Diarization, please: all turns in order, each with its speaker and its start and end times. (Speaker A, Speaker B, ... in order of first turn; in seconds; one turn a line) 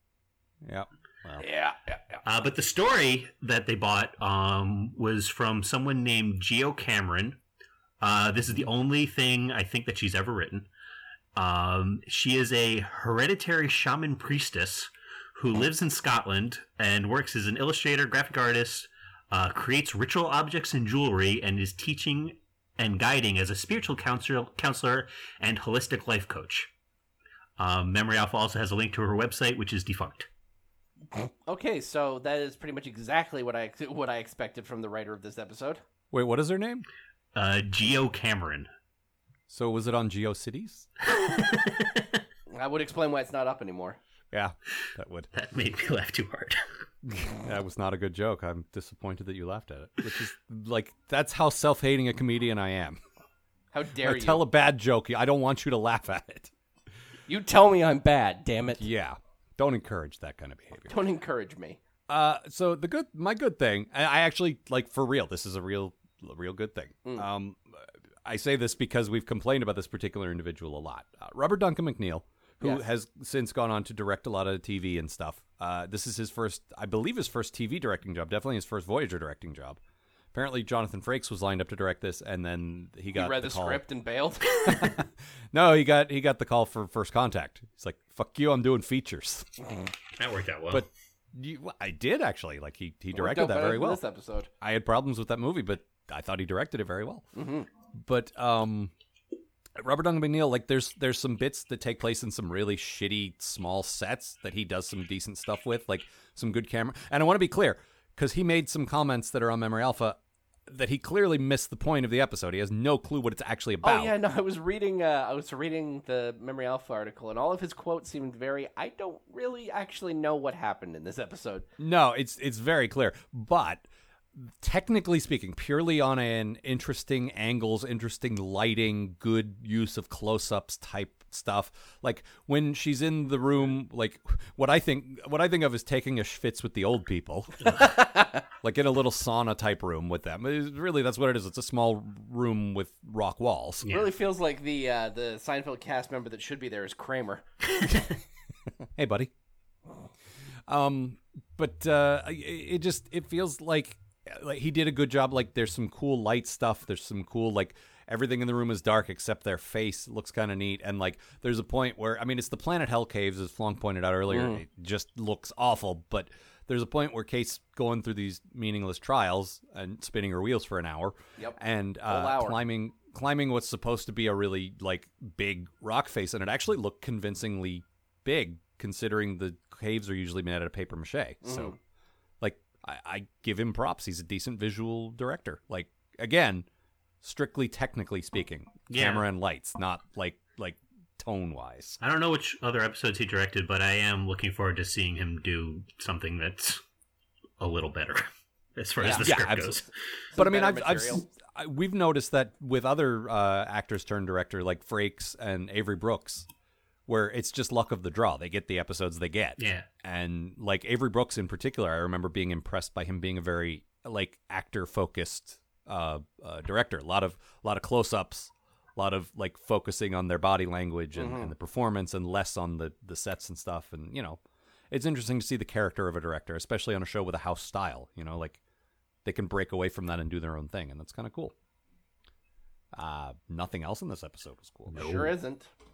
Speaker A: 0.6-1.5
Speaker B: 1.4-2.2
Speaker C: 2.2-7.4
Speaker C: 8.0-10.7
Speaker C: 11.3-26.7
Speaker C: 27.6-30.3
Speaker B: 31.1-35.8
Speaker A: 36.1-36.9
Speaker C: 37.4-38.7
Speaker A: 39.5-40.9
Speaker C: 41.0-42.2
Speaker B: 42.5-44.0
Speaker A: 44.3-45.3
Speaker C: 45.3-46.6
Speaker A: 47.1-53.0
Speaker B: 53.7-54.5
Speaker A: 54.0-56.5
Speaker B: 57.3-58.9
Speaker A: 58.8-61.0
Speaker B: 60.9-61.8
Speaker A: 62.1-79.8
Speaker A: 80.3-83.8
Speaker B: 83.2-85.0
Speaker A: 84.6-89.7
Speaker C: 90.2-90.9
Speaker A: 90.7-94.0
Speaker B: 93.1-94.5
Speaker A: 94.6-97.3
Speaker B: 97.3-97.7
Speaker A: 97.9-98.9
Speaker A: 99.8-114.2
Speaker B: 113.8-121.7
Speaker A: 121.8-138.0
Speaker B: 137.8-138.4
Speaker A: 138.6-143.9
Speaker C: 143.8-144.1
Speaker B: 143.9-147.5
Speaker A: 148.9-149.3
Speaker A: 150.7-181.8
Speaker B: 164.3-164.6
Speaker B: 171.4-172.6
Speaker B: 181.4-181.8
Speaker A: 182.4-186.7
Speaker A: 187.2-192.0
Speaker C: 188.9-189.3
Speaker C: 192.0-196.8
Speaker C: 197.6-199.9
Speaker B: 199.0-199.3
Speaker A: 199.2-199.8
Speaker B: 200.3-201.2
Speaker A: 200.3-206.5
Speaker A: 207.1-224.4
Speaker C: 209.6-209.9
Speaker B: 221.2-221.5
Speaker A: 224.9-228.6
Speaker A: 229.2-231.5
Speaker A: 232.9-235.1
Speaker B: 234.9-235.7
Speaker C: 234.9-235.3